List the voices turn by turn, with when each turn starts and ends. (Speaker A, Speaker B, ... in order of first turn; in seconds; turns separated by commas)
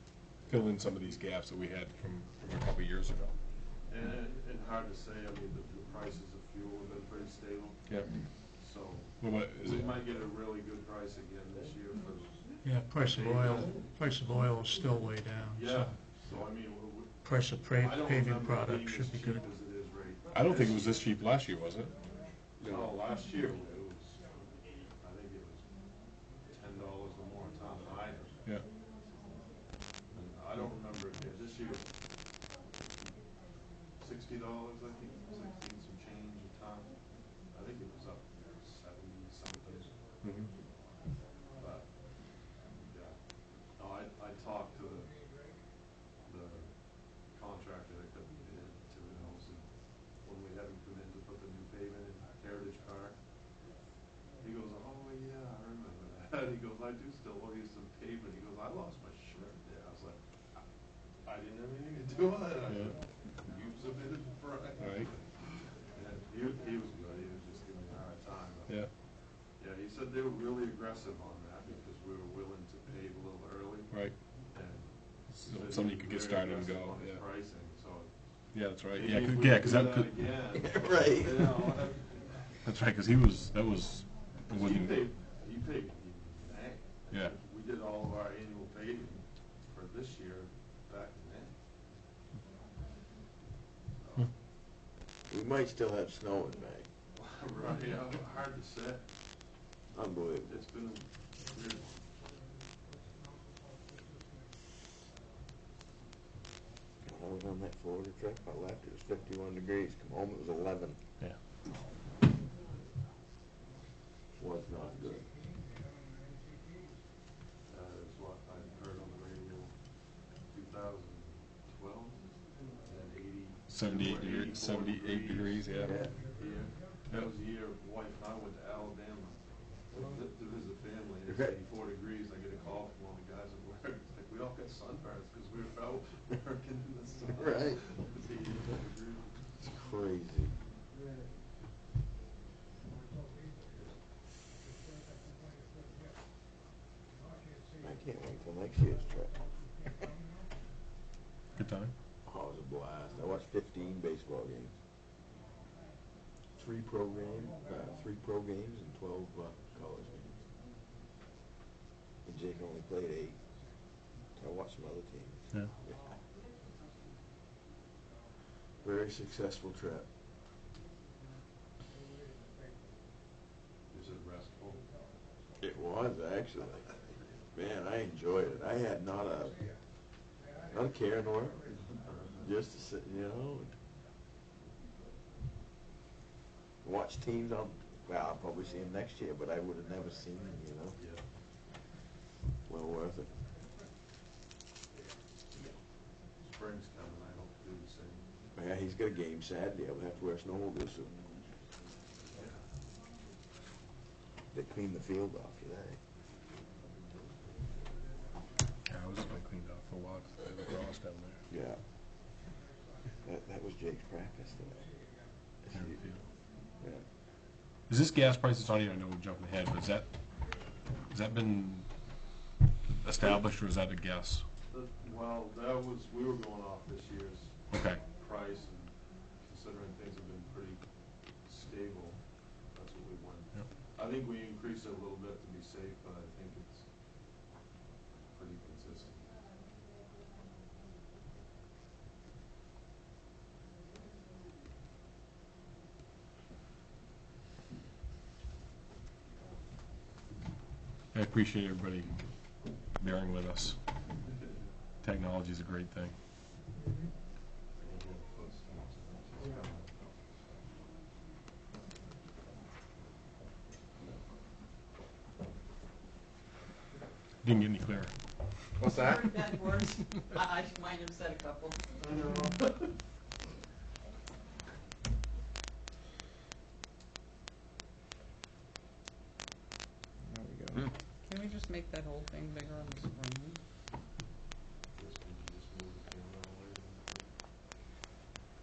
Speaker A: 0.5-3.4, Speaker B: 3.9-7.8, Speaker A: 7.9-8.1, Speaker B: 8.6-13.9, Speaker A: 9.2-10.0, Speaker C: 12.6-15.9, Speaker B: 15.5-17.2, Speaker C: 17.2-19.5, Speaker B: 17.7-20.9, Speaker A: 20.3-21.9, Speaker B: 22.6-25.7, Speaker B: 26.5-28.4, Speaker B: 30.1-32.0, Speaker B: 34.0-37.0, Speaker B: 37.5-39.9, Speaker A: 40.2-40.5, Speaker B: 41.6-41.9, Speaker B: 42.7-43.2, Speaker B: 43.8-45.1, Speaker B: 46.2-46.7, Speaker B: 47.2-49.6, Speaker B: 50.2-53.1, Speaker B: 54.4-60.6, Speaker B: 61.2-65.3, Speaker A: 62.7-63.0, Speaker A: 64.8-65.1, Speaker B: 65.9-68.7, Speaker B: 69.6-78.1, Speaker A: 73.9-74.1, Speaker A: 75.3-77.2, Speaker A: 78.5-80.1, Speaker B: 78.9-82.4, Speaker D: 80.5-81.7, Speaker A: 82.6-85.1, Speaker B: 84.5-91.5, Speaker B: 93.9-94.3, Speaker D: 95.3-96.9, Speaker B: 97.1-99.0, Speaker D: 99.9-100.5, Speaker B: 100.4-102.0, Speaker D: 107.0-111.0, Speaker D: 114.4-115.3, Speaker B: 117.7-119.7, Speaker B: 120.5-122.3, Speaker B: 122.8-129.4, Speaker A: 123.7-126.0, Speaker D: 125.8-126.1, Speaker B: 129.9-139.5, Speaker D: 137.3-137.8, Speaker D: 139.6-140.5, Speaker D: 147.8-149.4, Speaker A: 151.5-151.9, Speaker D: 152.2-154.7, Speaker D: 156.6-160.4, Speaker D: 162.2-163.4, Speaker D: 164.3-166.1, Speaker D: 168.8-170.1, Speaker B: 173.9-174.8, Speaker D: 175.6-176.9, Speaker D: 177.5-179.6, Speaker D: 180.7-181.6, Speaker B: 181.7-182.5, Speaker D: 182.4-183.7, Speaker D: 186.8-191.0, Speaker B: 190.9-191.2, Speaker D: 192.7-193.3, Speaker B: 196.4-198.2, Speaker D: 198.5-201.1, Speaker D: 204.5-206.0, Speaker A: 208.8-211.4, Speaker D: 211.5-211.8, Speaker D: 213.2-214.9, Speaker D: 215.7-216.0, Speaker A: 215.7-216.2, Speaker A: 217.9-220.1, Speaker A: 221.1-221.9, Speaker A: 223.0-224.4, Speaker B: 224.7-227.5, Speaker A: 227.7-228.0, Speaker B: 228.1-230.8, Speaker B: 231.4-232.2, Speaker B: 232.7-236.8, Speaker B: 238.3-239.3, Speaker A: 251.1-252.1, Speaker A: 253.0-253.8, Speaker A: 255.0-256.1, Speaker B: 257.8-259.9, Speaker A: 267.4-268.1, Speaker E: 268.8-272.2, Speaker B: 272.0-272.9, Speaker E: 280.8-283.6, Speaker B: 284.9-287.3